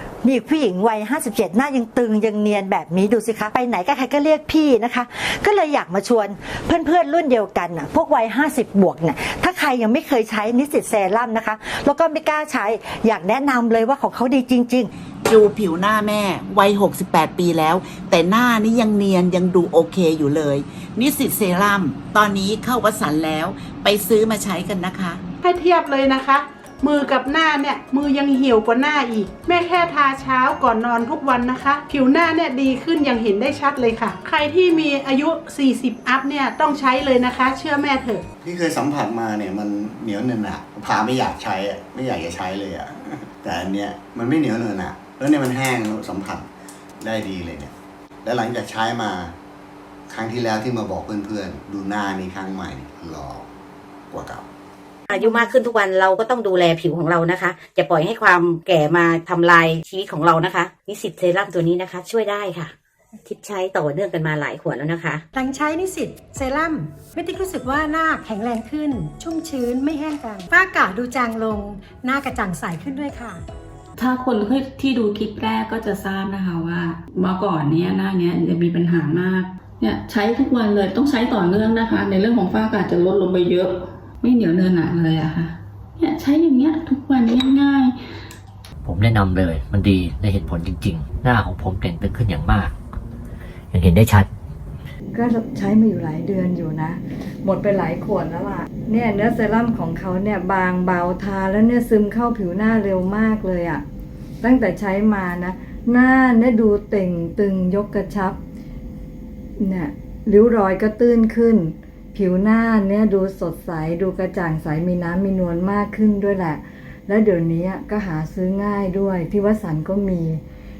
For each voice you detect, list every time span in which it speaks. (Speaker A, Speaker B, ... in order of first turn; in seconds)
Speaker A: 0.2-14.9
Speaker B: 15.3-25.2
Speaker C: 25.4-38.2
Speaker D: 38.4-46.5, 47.0-49.4, 50.1-53.5, 54.1-54.5
Speaker E: 55.1-62.7, 63.2-65.2
Speaker F: 55.2-55.6, 65.3-73.4
Speaker G: 74.0-88.0
Speaker H: 88.8-92.7, 93.7-94.3
Speaker I: 95.1-103.8, 104.4-108.4, 109.6-120.4